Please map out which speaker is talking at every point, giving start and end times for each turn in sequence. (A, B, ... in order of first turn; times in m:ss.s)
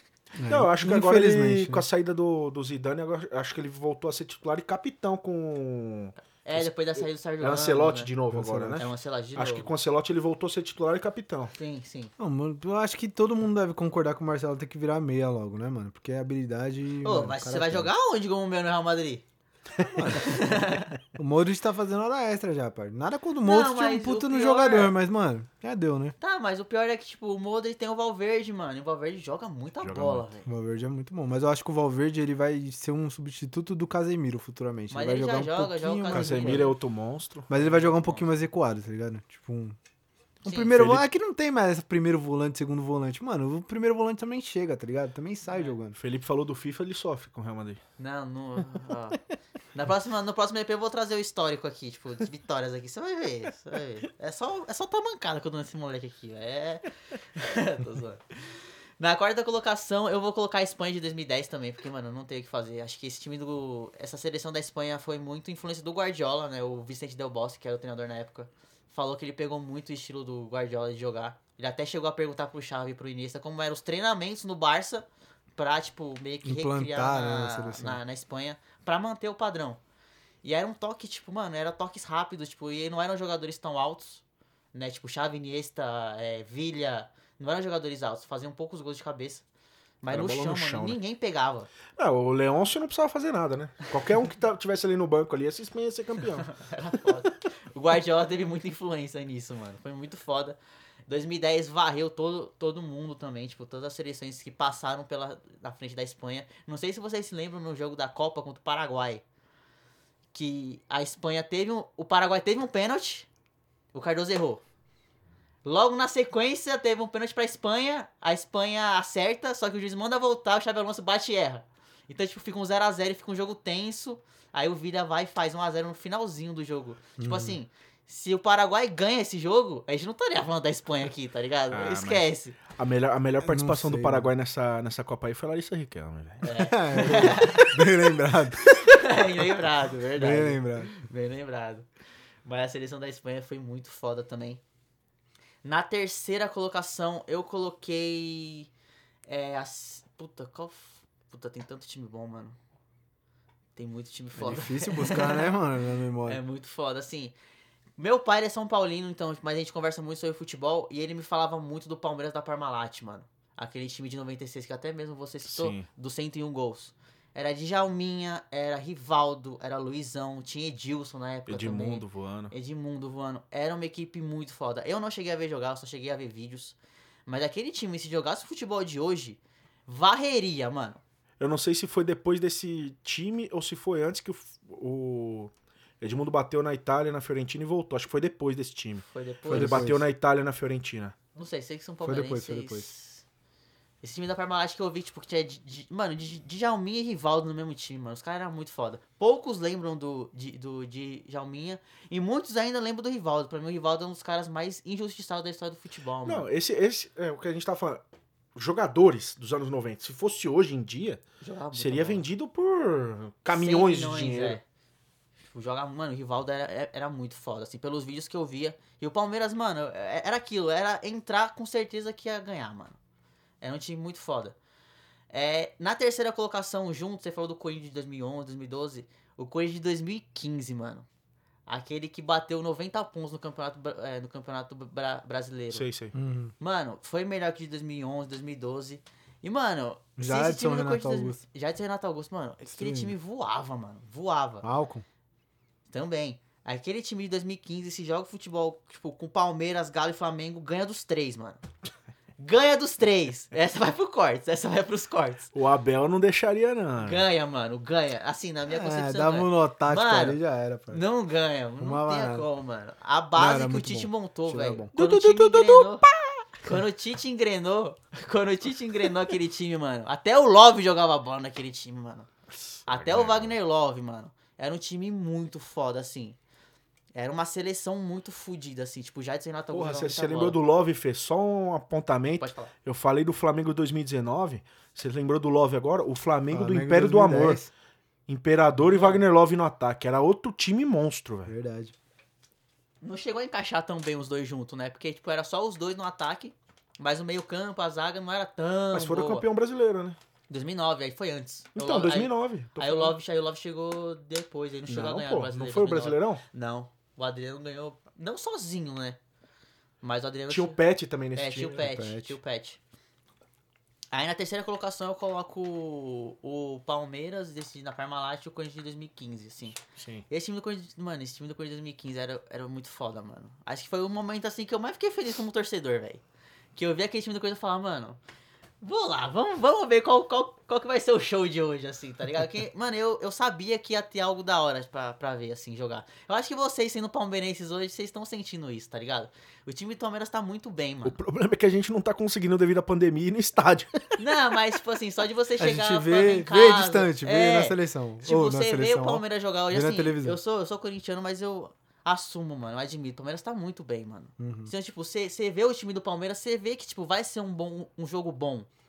0:00.4-0:01.8 A
0:00.5-0:11.5 B
0:06.2-0:08.1 C
0:08.3-0:08.8 A
0:08.8-0:09.7 C
0:11.5-0:12.1 C
0:12.2-0:17.9 A
0:17.0-0:19.2 C
0:19.9-0:20.4 A
0:20.1-0:20.9 C
0:21.2-0:26.1 A
0:23.4-0:24.9 C
0:26.2-0:30.5 C
0:29.8-0:30.2 B
0:30.4-0:36.7 A
0:34.9-0:36.7 C
0:36.1-0:37.5 B
0:37.5-0:39.8 A
0:37.5-0:38.3 C
0:40.4-0:40.7 C
0:40.4-0:46.0 A
0:40.7-0:41.0 B
0:45.5-0:45.7 C
0:46.0-0:47.8 B
0:48.0-0:49.2 C
0:49.7-1:15.0 C
1:15.6-1:19.8 C
1:16.4-1:18.0 A
1:20.4-1:24.2 C
1:24.7-1:29.4 C
1:30.0-1:31.7 C
1:30.1-1:31.0 B
1:32.0-1:36.6 B
1:36.5-1:49.2 C
1:50.3-1:53.3 C
1:53.9-1:54.6 C
1:55.6-2:12.6 C
2:07.2-2:07.6 A
2:11.7-2:16.5 B
2:13.4-2:14.3 A
2:16.4-2:17.9 C
2:16.5-2:18.9 A
2:18.8-2:21.8 C
2:20.1-2:20.9 A
2:22.4-2:24.6 C
2:25.6-2:28.7 C
2:29.2-2:32.6 C
2:33.8-2:35.5 C
2:34.4-2:36.4 A
2:36.2-2:37.3 C
2:38.0-3:01.0 C
2:45.5-2:45.8 B
2:51.5-2:52.5 B
3:01.4-3:11.1 B
3:09.1-3:09.9 C
3:09.5-3:10.0 A
3:11.3-3:13.2 C
3:12.0-3:12.9 A
3:14.0-3:26.5 C
3:26.2-3:28.0 B
3:28.5-3:31.2 B
3:31.4-3:32.2 C
3:31.7-3:34.6 B
3:33.5-3:34.6 C
3:35.4-3:43.0 C
3:43.6-3:44.5 C
3:45.3-3:51.0 C
3:51.7-3:55.8 C
3:55.7-3:56.1 B
3:56.1-3:56.5 A
3:56.6-4:04.6 C
4:00.2-4:01.4 A
4:02.7-4:03.1 A
4:04.6-4:05.0 A
4:05.9-4:11.6 C
4:12.4-4:15.5 C
4:15.5-4:17.2 B
4:17.0-4:20.4 C
4:18.7-4:21.0 A
4:20.9-4:26.0 C
4:21.8-4:22.5 A
4:23.4-4:24.9 A
4:24.9-4:26.4 B
4:26.6-4:32.3 C
4:32.5-4:33.5 B
4:32.9-4:36.4 C
4:37.1-4:40.6 C
4:39.7-4:47.6 B
4:42.4-4:42.7 C
4:46.5-4:47.7 A
4:48.3-4:51.5 B
4:48.8-4:49.2 C
4:51.4-4:51.9 A
4:53.0-4:59.4 C
4:58.9-5:00.2 B
5:00.5-5:09.2 C
5:01.8-5:03.1 B
5:04.9-5:06.4 B
5:10.0-5:10.8 C
5:10.5-5:11.8 B
5:11.3-5:12.8 C
5:11.7-5:12.4 A
5:14.1-5:19.8 C
5:20.0-5:20.2 B
5:20.3-5:26.2 C
5:26.8-5:28.2 C
5:28.8-5:41.2 C
5:41.0-5:44.0 B
5:44.2-5:58.7 C
5:45.6-5:50.4 A
5:54.4-5:54.7 A